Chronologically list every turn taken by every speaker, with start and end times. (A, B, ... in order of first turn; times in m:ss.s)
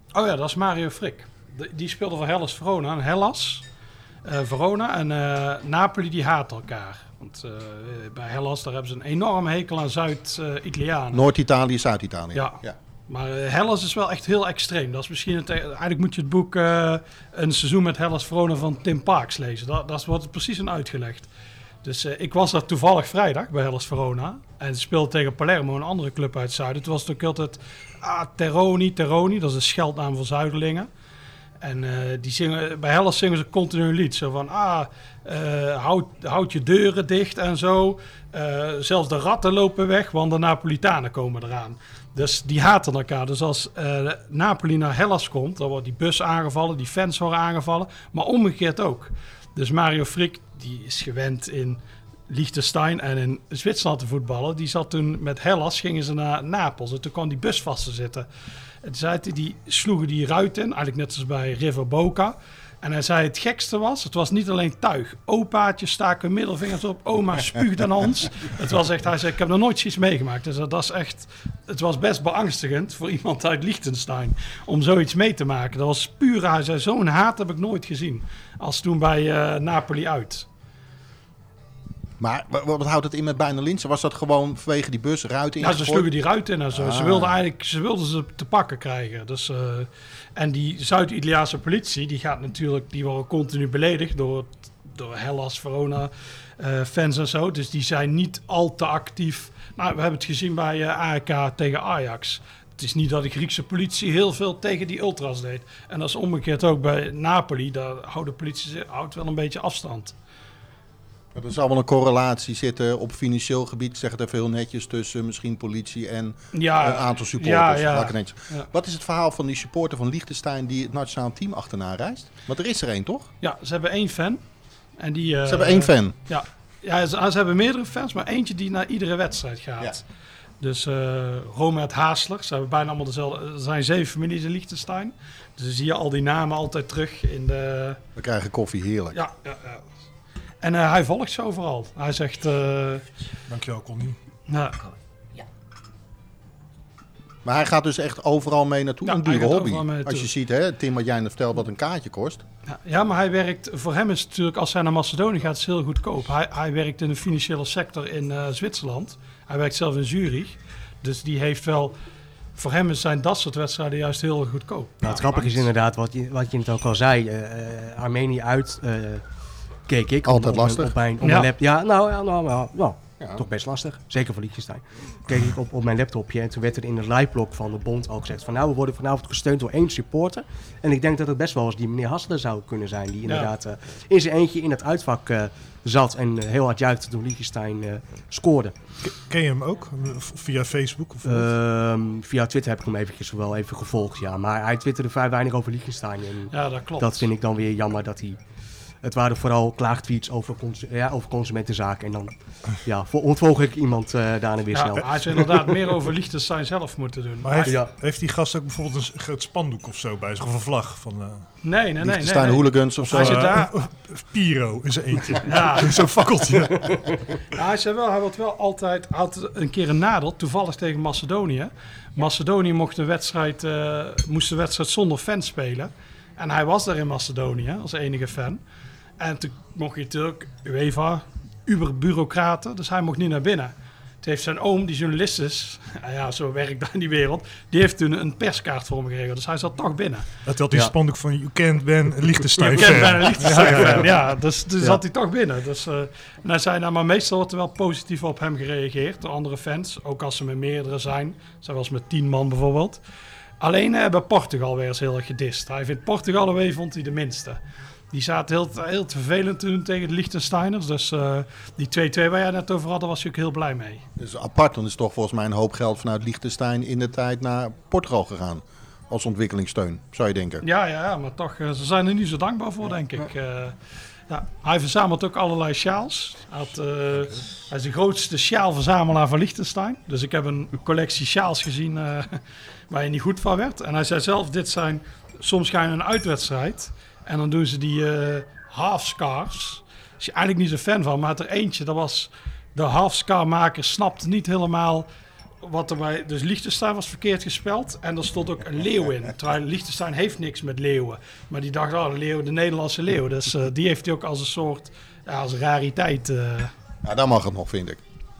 0:00.1-0:03.6 A
0:04.2-0:11.2 A
0:11.1-0:12.7 B
0:12.3-0:21.3 A
0:21.8-0:30.9 A
0:31.6-0:58.3 A
0:58.8-1:20.4 A
1:22.2-1:26.1 B
1:25.6-1:50.1 A
1:26.7-1:27.4 B
1:51.3-2:03.3 B
1:56.5-1:58.7 A
2:03.4-2:04.4 A
2:05.0-2:10.0 A
2:05.4-2:06.1 B
2:10.6-2:18.0 A
2:18.2-2:19.2 B
2:19.1-2:19.8 A
2:20.6-2:23.0 A
2:23.5-2:24.2 C
2:24.5-2:24.9 A
2:27.4-2:32.4 B
2:29.0-2:30.3 A
2:32.6-2:41.9 A
2:42.6-2:45.6 A
2:45.0-2:49.2 D
2:49.9-3:08.7 D
2:50.2-2:50.9 B
2:51.2-2:51.5 A
2:53.2-2:53.4 B
3:03.2-3:03.5 A
3:09.0-3:11.5 C
3:11.2-3:18.4 D
3:16.5-3:17.3 A
3:19.0-3:25.2 D
3:24.7-3:27.8 A
3:27.4-3:31.4 C
3:27.6-3:27.9 D
3:31.6-3:33.7 A
3:32.0-3:33.6 B
3:33.1-3:37.1 C
3:35.4-3:36.0 A
3:37.4-3:48.6 A
3:49.2-4:00.3 A
4:00.4-4:04.1 C
4:02.7-4:13.0 A
4:13.6-4:17.6 A
4:18.1-4:24.0 A
4:24.2-4:30.6 B
4:30.6-4:55.1 A
4:55.6-5:06.7 A
5:07.0-5:08.0 B